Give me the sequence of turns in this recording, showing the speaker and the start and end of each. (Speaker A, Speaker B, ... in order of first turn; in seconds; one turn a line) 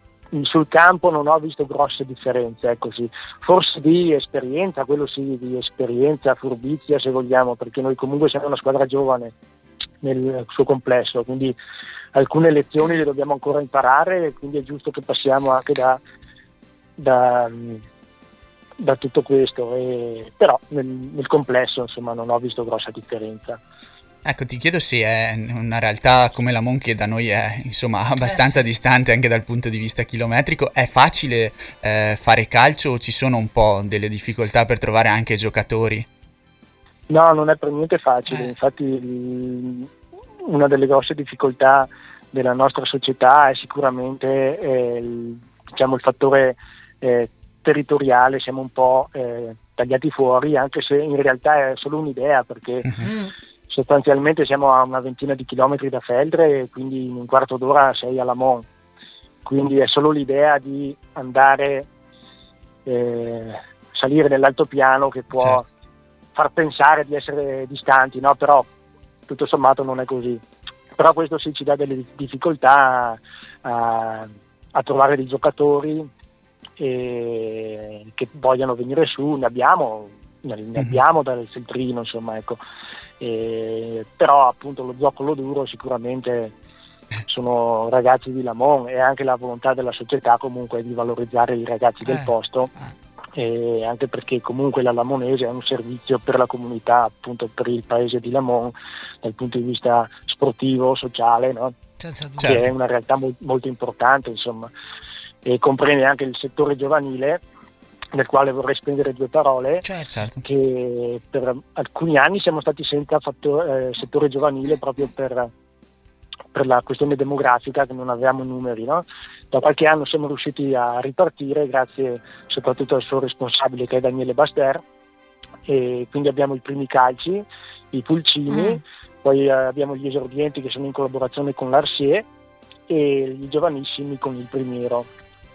Speaker A: 0.3-9.3
Speaker A: 10.0-11.6
Speaker A: 12.1-16.0
Speaker A: 17.0-17.8
Speaker A: 18.8-23.6
Speaker B: 24.2-36.1
Speaker C: 28.3-28.6
Speaker A: 37.1-39.9
Speaker A: 40.5-52.9
Speaker C: 53.0-53.3
Speaker A: 53.7-58.6
Speaker A: 59.5-61.9
Speaker A: 62.9-65.7
Speaker A: 66.3-68.7
Speaker A: 69.3-70.4
Speaker A: 70.9-76.1
Speaker A: 76.8-82.6
Speaker A: 83.2-86.5
Speaker A: 87.3-92.7
Speaker C: 92.0-92.9
Speaker A: 93.4-101.8
Speaker C: 102.0-102.7
Speaker A: 102.4-104.7
Speaker A: 105.5-107.4
Speaker A: 108.1-109.8
Speaker C: 109.8-110.1
Speaker B: 110.1-110.4
Speaker A: 110.4-115.5
Speaker A: 116.5-124.8
Speaker A: 125.7-132.3
Speaker C: 128.5-128.8
Speaker A: 132.9-135.1